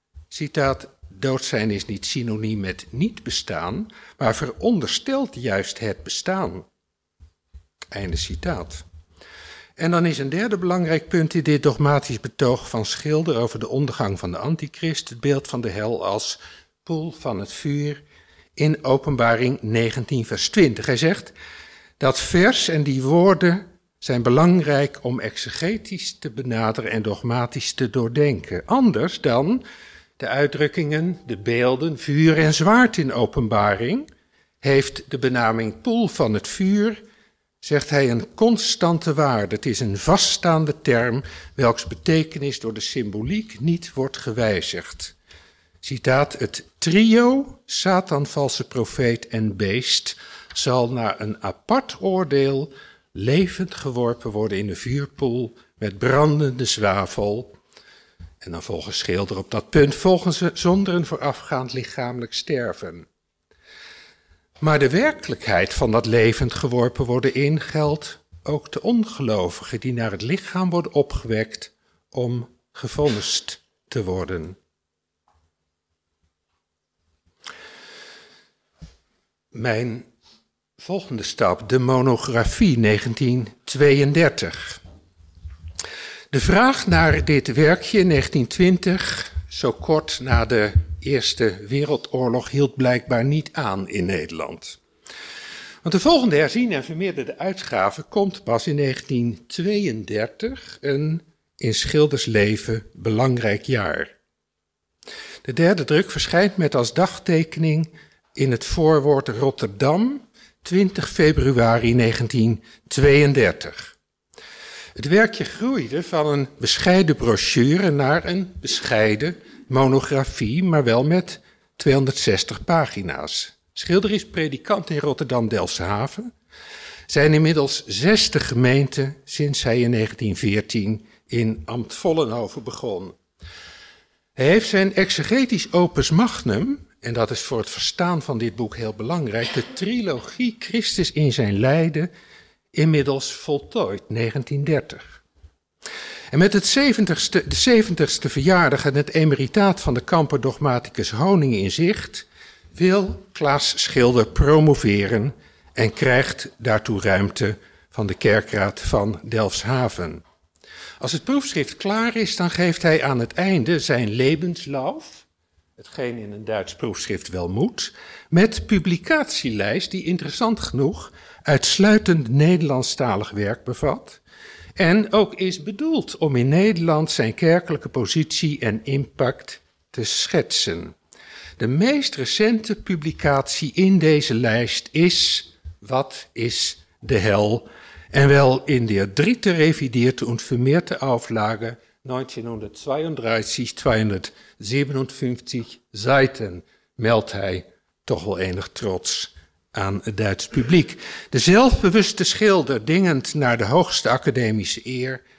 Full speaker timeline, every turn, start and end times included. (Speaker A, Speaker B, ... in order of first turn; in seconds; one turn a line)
Speaker A: 0.3-6.7
Speaker A: 7.9-8.8
Speaker A: 9.8-18.0
Speaker A: 18.6-21.3
Speaker A: 22.0-29.6
Speaker A: 30.2-34.1
Speaker A: 34.6-37.0
Speaker A: 37.6-45.1
Speaker A: 45.8-57.6
Speaker A: 58.4-63.1
Speaker A: 64.6-74.6
Speaker A: 79.5-80.1
Speaker A: 80.8-84.8
Speaker A: 86.3-94.8
Speaker A: 95.8-104.1
Speaker A: 105.5-114.0
Speaker A: 115.0-126.3
Speaker A: 127.1-133.2
Speaker A: 134.4-142.1
Speaker A: 142.7-145.2
Speaker A: 146.3-160.2
Speaker A: 161.0-174.2
Speaker A: 174.8-181.0
Speaker A: 181.6-205.2